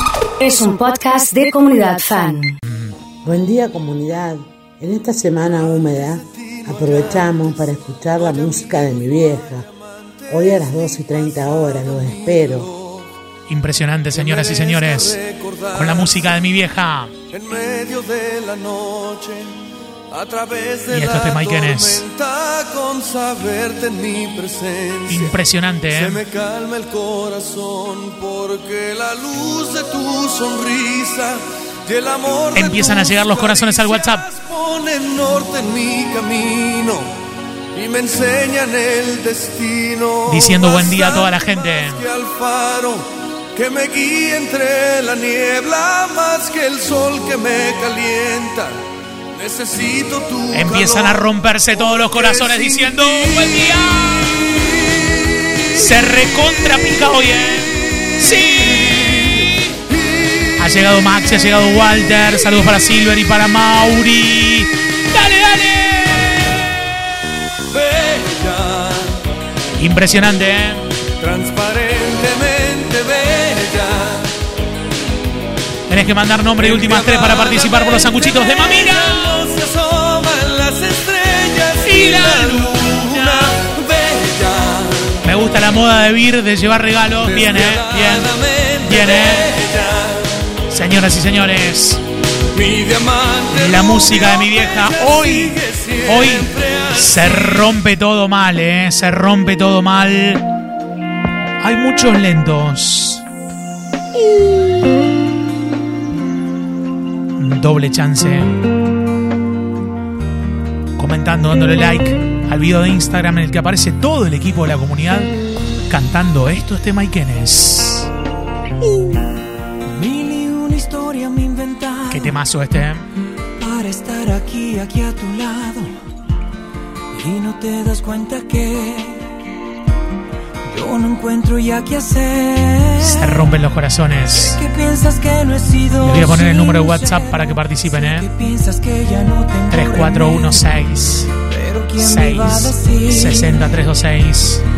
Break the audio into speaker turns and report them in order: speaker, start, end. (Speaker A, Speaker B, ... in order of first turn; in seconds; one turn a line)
Speaker A: 0.4-2.5
Speaker B: 2.7-2.9
Speaker C: 3.2-9.7
Speaker D: 6.0-7.6
Speaker D: 8.2-9.7
Speaker C: 10.3-12.7
Speaker D: 10.3-13.1
Speaker B: 13.5-15.2
Speaker D: 14.1-16.2
Speaker B: 15.7-17.1
Speaker D: 17.3-19.5
Speaker D: 20.1-25.4
Speaker B: 20.9-22.1
Speaker B: 25.1-26.2
Speaker D: 25.9-37.1
Speaker B: 32.5-34.3
Speaker D: 37.7-48.8
Speaker B: 40.3-42.1
Speaker D: 49.4-53.8
Speaker B: 50.5-54.5
Speaker B: 55.8-59.8
Speaker B: 60.6-66.6
Speaker D: 67.7-69.2
Speaker B: 69.8-70.9
Speaker D: 71.2-74.3
Speaker B: 75.9-79.4
Speaker D: 76.6-85.2
Speaker B: 81.8-83.6
Speaker B: 85.2-88.3
Speaker D: 87.2-90.3
Speaker B: 88.8-89.5
Speaker B: 90.7-92.0
Speaker D: 92.5-97.6
Speaker B: 93.5-100.4
Speaker B: 101.6-103.2
Speaker B: 107.4-108.5
Speaker B: 111.0-115.3
Speaker B: 115.9-118.1
Speaker E: 119.9-122.3
Speaker B: 122.1-123.0
Speaker E: 123.6-125.9
Speaker E: 127.1-129.3
Speaker E: 130.7-133.5
Speaker B: 133.0-134.6
Speaker E: 134.3-140.7
Speaker B: 136.0-138.3
Speaker B: 139.7-141.3
Speaker E: 141.4-143.7
Speaker B: 142.0-144.6